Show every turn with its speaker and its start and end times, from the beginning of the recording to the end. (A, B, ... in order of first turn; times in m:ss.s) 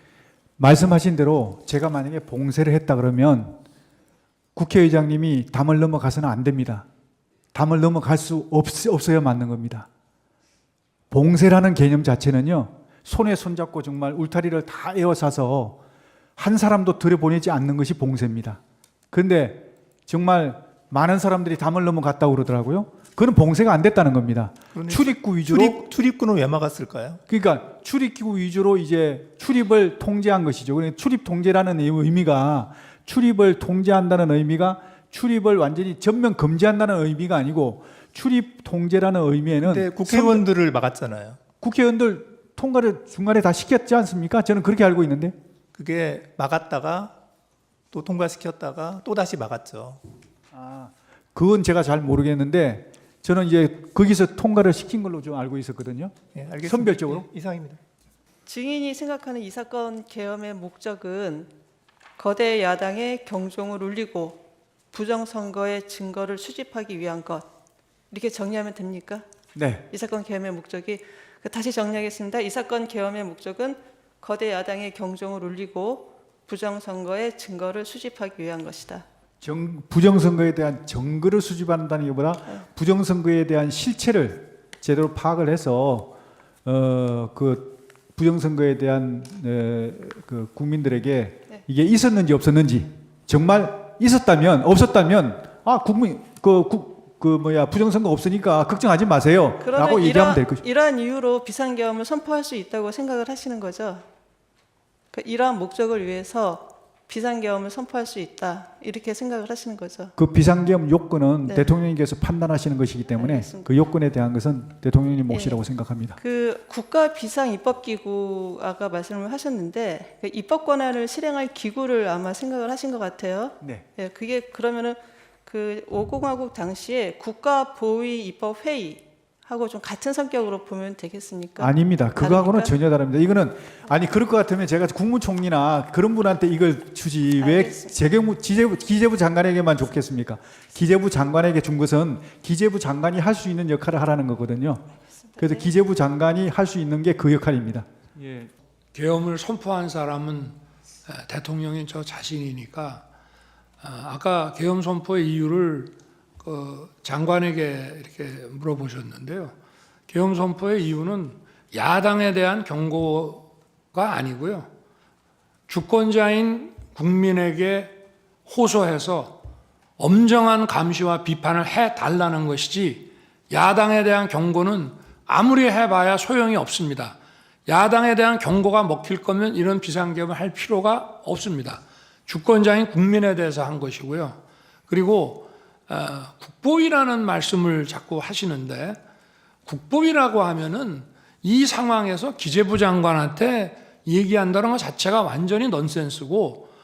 0:00.6-0:03.6 A
0:04.5-0:06.8 A
0:07.5-0:09.9 A
0:11.1-0:15.8 A
0:16.4-0:18.6 A
0:19.1-0:25.8 A
0:24.7-0:27.2 B
0:27.3-0:40.4 A
0:39.6-0:41.4 B
0:41.6-0:45.3 A
0:45.7-0:47.2 B
0:47.9-0:50.0 B
0:50.5-0:57.2 A
0:56.3-0:57.8 B
0:58.4-1:01.5 C
1:02.2-1:07.4 C
1:08.1-1:09.2 C
1:09.5-1:09.8 A
1:09.9-1:19.0 C
1:19.4-1:40.6 A
1:39.6-1:44.0 C
1:45.1-1:50.1 C
1:50.2-1:56.2 A
1:51.4-1:51.7 C
1:53.1-1:53.7 C
1:55.3-1:55.6 C
1:56.2-2:12.7 C
2:03.6-2:03.8 A
2:11.6-2:27.9 A
2:17.4-2:17.9 C
2:25.3-2:25.6 C
2:28.9-2:33.0 D
2:33.8-2:39.5 D
2:40.1-2:44.7 D
2:45.7-2:49.4 D
2:50.0-3:09.0 D
3:09.6-3:16.7 D